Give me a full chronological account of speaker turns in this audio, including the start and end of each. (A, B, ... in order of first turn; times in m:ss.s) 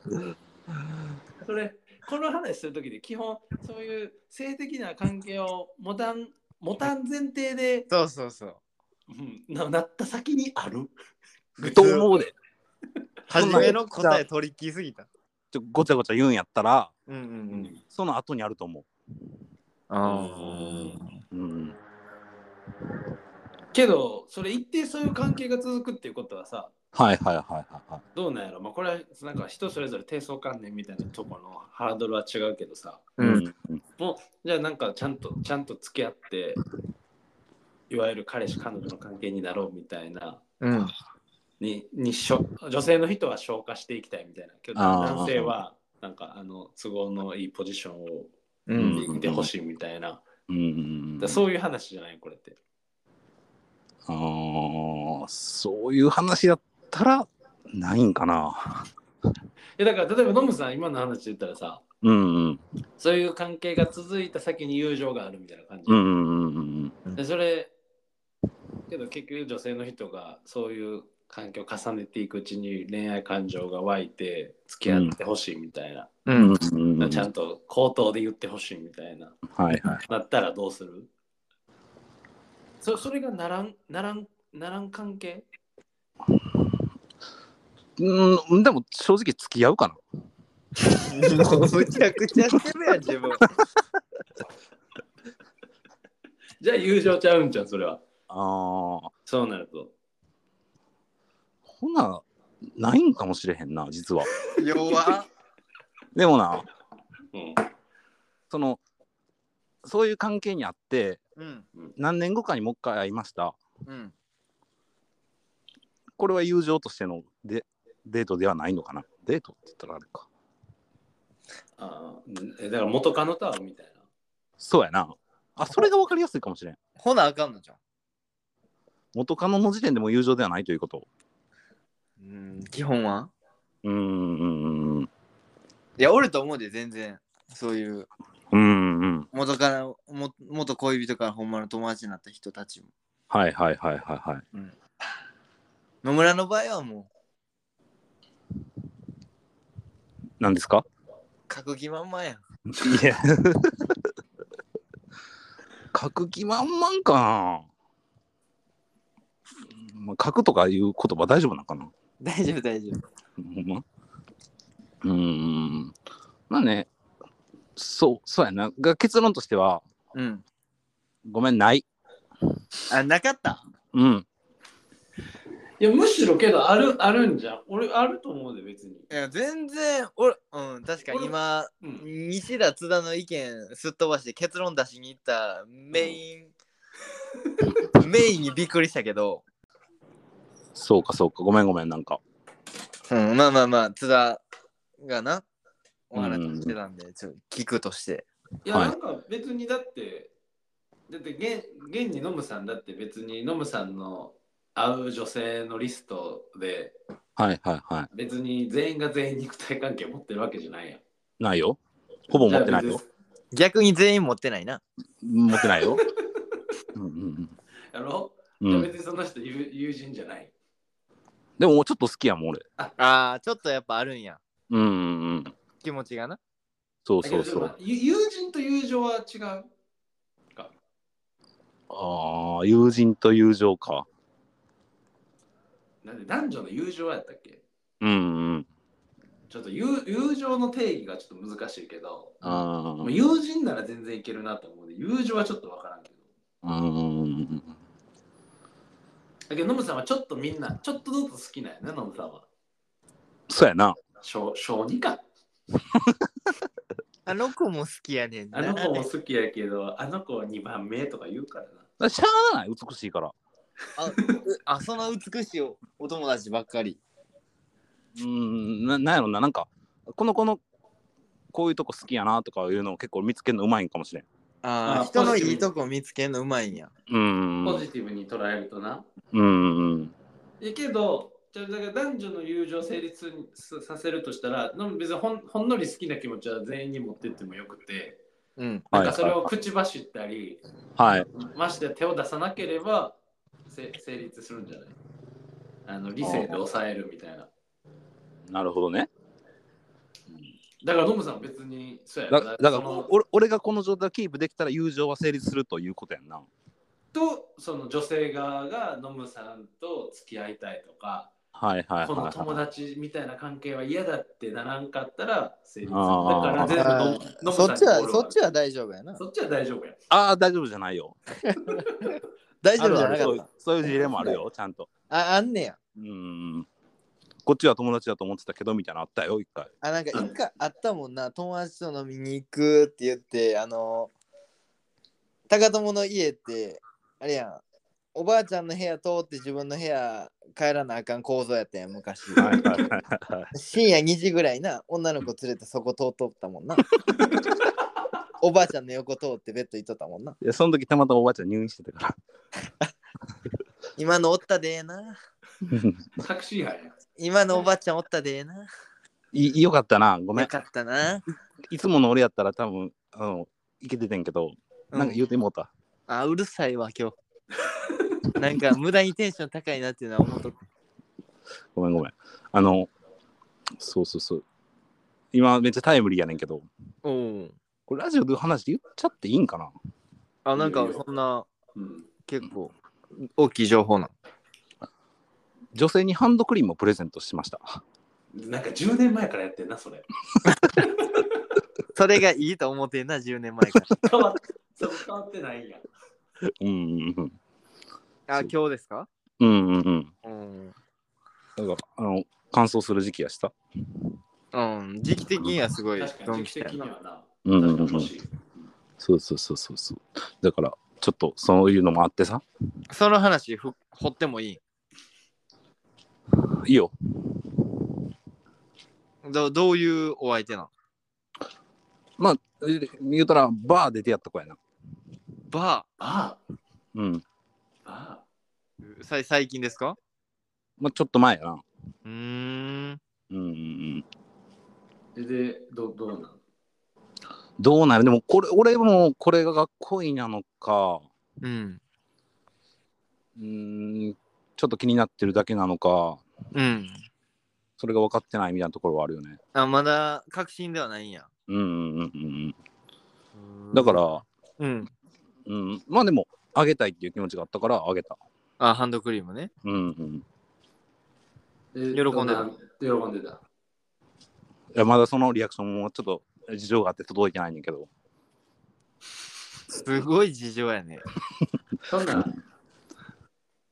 0:01.4-0:07.9 A
0:07.9-0:08.6 B
0:09.1-0:10.9 A
0:11.6-0:12.0 A
0:11.6-0:12.0 B
0:11.6-0:12.3 C
0:13.3-0:15.1 B
0:13.3-0:14.2 C
0:15.5-0:16.9 C
0:17.1-0:17.7 B
0:17.5-0:17.8 A
0:17.8-0:18.9 C
0:19.9-0:21.2 B
0:20.0-0:21.0 A
0:21.3-0:21.8 C
0:23.7-0:26.7 A
0:26.9-0:28.0 C
0:28.1-0:33.1 A
0:33.2-0:33.4 B
0:33.2-0:33.8 C
0:34.0-0:36.6 A
0:37.9-0:40.4 A
0:40.6-0:40.9 B
0:41.6-0:48.3 A
0:44.8-0:45.6 C
0:48.7-0:49.0 B
0:48.7-0:49.5 C
0:48.9-0:50.2 A
0:50.5-0:51.4 C
0:51.2-0:52.6 A
0:54.0-0:58.9 C
0:59.8-1:01.8 A
1:02.0-1:02.6 C
1:03.0-1:06.0 A
1:05.9-1:07.0 C
1:07.1-1:07.7 A
1:08.9-1:16.1 A
1:14.9-1:15.1 C
1:16.3-1:16.5 B
1:16.3-1:17.3 C
1:17.0-1:19.4 A
1:19.5-1:20.0 C
1:20.1-1:21.1 A
1:22.8-1:25.4 A
1:28.0-1:30.0 C
1:30.9-1:33.5 B
1:36.6-1:38.0 A
1:38.3-1:39.1 C
1:39.2-1:39.9 A
1:41.7-1:44.3 C
1:44.5-1:45.3 B
1:46.1-1:46.6 C
1:47.3-1:47.6 A
1:48.5-1:48.8 C
1:49.8-1:51.2 C
1:51.4-1:51.6 B
1:52.0-1:53.6 C
1:53.8-1:54.1 B
1:56.2-2:00.3 C
2:01.8-2:04.0 A
2:04.6-2:06.8 C
2:07.0-2:07.8 B
2:09.1-2:11.1 C
2:12.2-2:13.3 B
2:13.8-2:15.1 C
2:16.0-2:18.1 B
2:18.5-2:19.3 C
2:19.3-2:22.9 B
2:23.3-2:24.4 C
2:26.0-2:27.1 B
2:30.4-2:30.8 C
2:31.5-2:32.4 B
2:32.7-2:34.1 C
2:35.9-2:37.7 C
2:39.7-2:41.9 C
2:42.2-2:43.0 B
2:43.4-2:43.8 C
2:45.0-2:46.0 C
2:46.5-2:46.9 C
2:47.8-2:49.8 C
2:50.1-2:50.4 B
2:51.2-2:51.8 C
2:52.9-2:53.6 B
2:53.9-2:54.2 C
2:55.8-2:59.1 A
2:59.1-3:06.5 B
3:01.0-3:02.0 A
3:07.9-3:09.4 B
3:10.7-3:12.2 C
3:13.1-3:14.4 B
3:15.0-3:15.4 B
3:16.1-3:18.3 B
3:16.1-3:16.7 C
3:18.6-3:20.3 A
3:21.1-3:26.9 A
3:27.4-3:28.1 C
3:28.1-3:31.0 A
3:31.4-3:33.0 C
3:32.3-3:33.1 A
3:33.5-3:34.8 B
3:35.2-3:36.0 C
3:35.7-3:36.0 A
3:36.9-3:37.5 C
3:37.9-3:40.5 A
3:38.6-3:38.9 C
3:41.6-3:42.6 C
3:43.0-3:44.4 B
3:44.7-3:45.5 C
3:45.8-3:46.4 B
3:47.0-3:47.7 C
3:47.2-3:49.7 A
3:51.9-3:54.1 C
3:56.0-3:57.6 A
3:58.0-3:58.7 C
3:59.5-4:06.2 A
4:02.4-4:03.1 C
4:06.6-4:07.7 C
4:09.5-4:12.4 A
4:13.5-4:14.0 C
4:14.2-4:15.2 A
4:17.2-4:19.1 B
4:18.5-4:21.8 A
4:22.0-4:23.3 C
4:24.0-4:27.0 B
4:24.1-4:24.4 A
4:28.1-4:30.6 C
4:31.5-4:34.2 C
4:34.6-4:36.9 B
4:34.8-4:35.7 A
4:37.1-4:37.8 C
4:37.6-4:39.1 A
4:39.3-4:40.1 C
4:40.6-4:48.2 A
4:48.6-4:48.9 B
4:48.9-4:49.5 C
4:48.9-4:50.6 A
4:51.0-4:51.3 C
4:51.4-4:53.2 A
4:53.7-4:55.0 A
4:55.8-4:57.5 A
4:56.2-4:56.6 C
4:58.5-4:59.1 C
5:00.3-5:03.1 A
5:02.3-5:06.5 C
5:07.1-5:11.3 A
5:11.5-5:12.6 C
5:12.0-5:18.4 A
5:15.9-5:17.0 C
5:16.7-5:19.2 B
5:19.2-5:20.0 A
5:20.1-5:21.2 C
5:21.4-5:21.8 B
5:22.6-5:24.4 B
5:22.8-5:24.9 C
5:25.1-5:25.8 B
5:26.0-5:26.7 C
5:27.4-5:29.7 C
5:29.8-5:34.1 B
5:35.5-5:37.6 B
5:38.1-5:42.5 B
5:42.4-5:43.5 C
5:42.4-5:42.8 A
5:43.5-5:47.0 B
5:47.1-5:47.5 A
5:48.4-5:50.4 B
5:50.4-5:52.2 C
5:54.0-5:55.2 B
5:55.6-5:56.0 C
5:56.2-5:56.9 A
5:57.2-5:58.7 B
5:59.3-6:00.5 C
6:00.4-6:01.2 B
6:01.7-6:05.7 C
6:04.9-6:05.2 B
6:06.1-6:07.2 B
6:08.3-6:10.6 B
6:11.7-6:12.9 C
6:13.8-6:14.4 C
6:15.3-6:16.7 C
6:17.0-6:17.6 B
6:17.9-6:19.7 C
6:20.4-6:21.5 B
6:20.6-6:21.0 A
6:21.8-6:22.1 A
6:22.3-6:24.1 B
6:25.7-6:27.8 C
6:28.3-6:30.1 A
6:31.9-6:34.0 B
6:34.0-6:35.8 A
6:36.6-6:37.4 C
6:38.3-6:39.1 B
6:39.4-6:40.1 C
6:40.2-6:40.7 B
6:41.6-6:43.5 C
6:44.5-6:46.8 B
6:46.0-6:48.3 A
6:47.4-6:48.1 C
6:49.0-6:52.4 C
6:52.9-6:54.6 B
6:56.3-6:57.7 C
6:59.2-7:00.7 B
7:02.2-7:04.6 C
7:05.5-7:05.9 B
7:06.0-7:06.4 A
7:06.9-7:07.2 C
7:07.8-7:08.2 A
7:08.8-7:10.0 B
7:10.8-7:11.6 C
7:12.0-7:13.0 B
7:13.3-7:14.0 C
7:15.1-7:16.4 A
7:17.6-7:21.0 C
7:21.4-7:21.8 B
7:23.4-7:26.2 C
7:26.5-7:26.9 B
7:27.8-7:29.4 C
7:29.5-7:31.3 B
7:31.5-7:32.6 C
7:33.4-7:34.0 B
7:33.7-7:34.2 C
7:34.6-7:34.9 B
7:35.4-7:38.2 C
7:38.6-7:39.5 B
7:39.6-7:40.2 C
7:41.7-7:43.4 A
7:41.9-7:42.4 B
7:44.7-7:47.9 C
7:49.8-7:51.0 B
7:51.8-7:52.3 A